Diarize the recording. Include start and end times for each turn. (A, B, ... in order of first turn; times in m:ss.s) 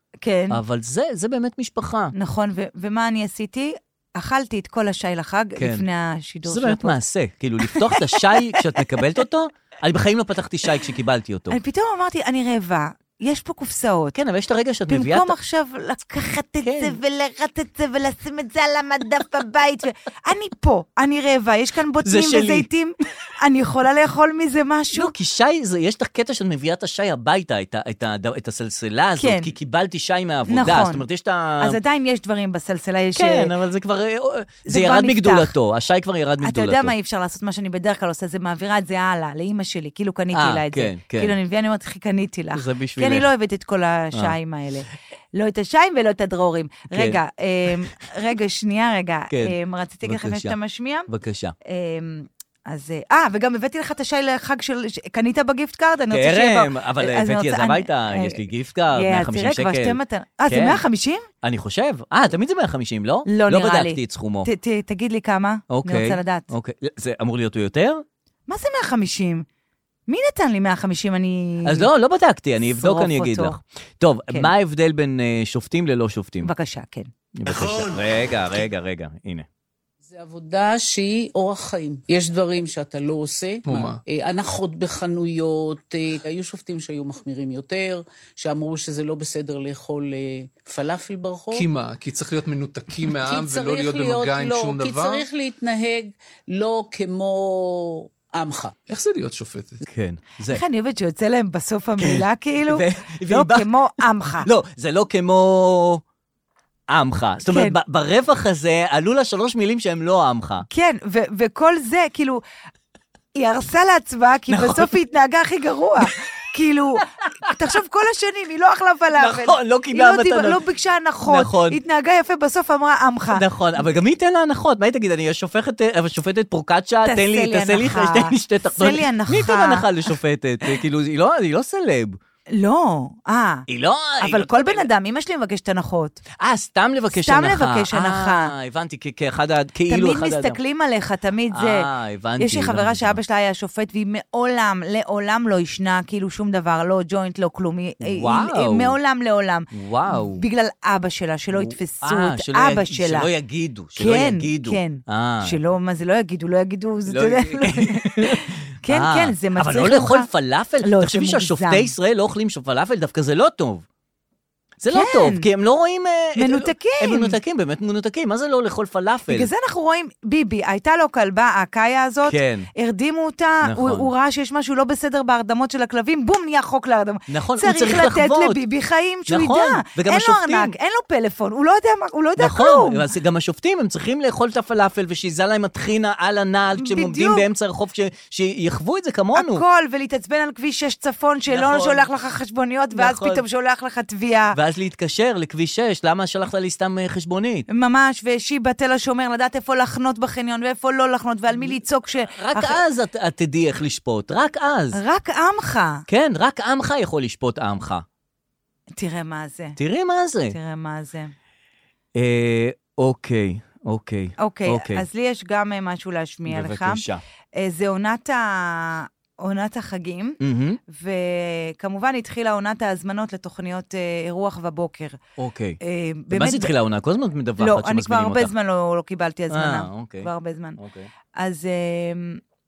0:00.2-0:00.6 A
0:00.5-0:02.1 B
0:02.1-0:07.0 A
0:05.6-0:05.8 B
0:06.5-0:11.6 B
0:07.7-0:08.8 A
0:11.5-0:14.2 A
0:14.2-0:15.3 B
0:14.9-0:25.1 A
0:16.6-0:17.0 B
0:22.0-0:22.7 B
0:24.9-0:31.8 B
0:29.2-0:29.5 A
0:30.5-0:31.0 A
0:31.6-0:33.5 A
0:33.2-0:36.9 B
0:34.7-0:35.5 A
0:36.4-0:51.1 A
0:40.3-0:41.4 B
0:42.5-0:43.3 B
0:46.9-0:47.2 B
0:49.3-0:50.6 B
0:51.1-0:51.6 B
0:51.7-0:58.4 A
0:56.1-1:00.8 B
0:58.9-1:01.3 A
1:01.4-1:04.5 B
1:03.3-1:06.5 A
1:05.7-1:08.0 B
1:08.5-1:09.5 A
1:10.1-1:11.9 A
1:11.6-1:16.5 B
1:12.7-1:13.6 A
1:16.4-1:17.1 A
1:17.4-1:19.5 B
1:20.0-1:31.7 C
1:23.6-1:24.0 D
1:31.5-1:35.3 D
1:33.0-1:38.8 C
1:38.9-1:39.8 D
1:39.9-1:40.6 B
1:40.5-1:44.5 A
1:42.0-1:43.7 B
1:44.4-1:46.0 B
1:46.9-1:50.7 B
1:47.5-1:47.8 A
1:50.7-1:52.4 A
1:53.4-2:03.4 A
1:54.5-1:54.9 B
1:59.2-2:00.6 B
2:01.3-2:01.8 B
2:03.3-2:12.2 B
2:07.0-2:10.1 A
2:12.5-2:13.6 A
2:13.7-2:14.9 B
2:14.2-2:16.2 A
2:16.4-2:20.6 B
2:17.1-2:18.5 A
2:19.9-2:21.9 A
2:21.5-2:23.2 B
2:22.4-2:33.3 A
2:28.0-2:29.0 B
2:29.7-2:30.4 B
2:31.5-2:35.6 B
2:34.0-2:40.3 A
2:37.1-2:43.8 B
2:40.8-2:41.9 A
2:44.8-2:49.5 B
2:44.9-2:45.4 A
2:46.4-2:47.4 A
2:49.3-3:03.0 A
2:52.3-2:52.7 B
2:53.6-2:54.1 B
2:57.3-2:58.6 B
2:59.3-3:00.7 B
3:02.4-3:09.6 B
3:06.8-3:07.4 A
3:09.4-3:14.6 A
3:11.5-3:12.1 B
3:12.9-3:13.4 B
3:14.5-3:17.7 B
3:17.7-3:22.8 A
3:22.3-3:25.0 B
3:24.9-3:26.0 A
3:26.1-3:28.0 B
3:29.0-3:29.8 A
3:29.8-3:30.6 B
3:30.5-3:31.3 A
3:32.2-3:35.0 B
3:34.4-3:37.0 A
3:36.5-3:37.2 B
3:37.6-3:45.2 A
3:40.4-3:40.8 B
3:45.4-3:45.8 B
3:45.8-3:46.7 A
3:46.3-3:48.5 B
3:47.6-3:50.8 A
3:49.5-3:51.1 B
3:51.4-3:52.4 A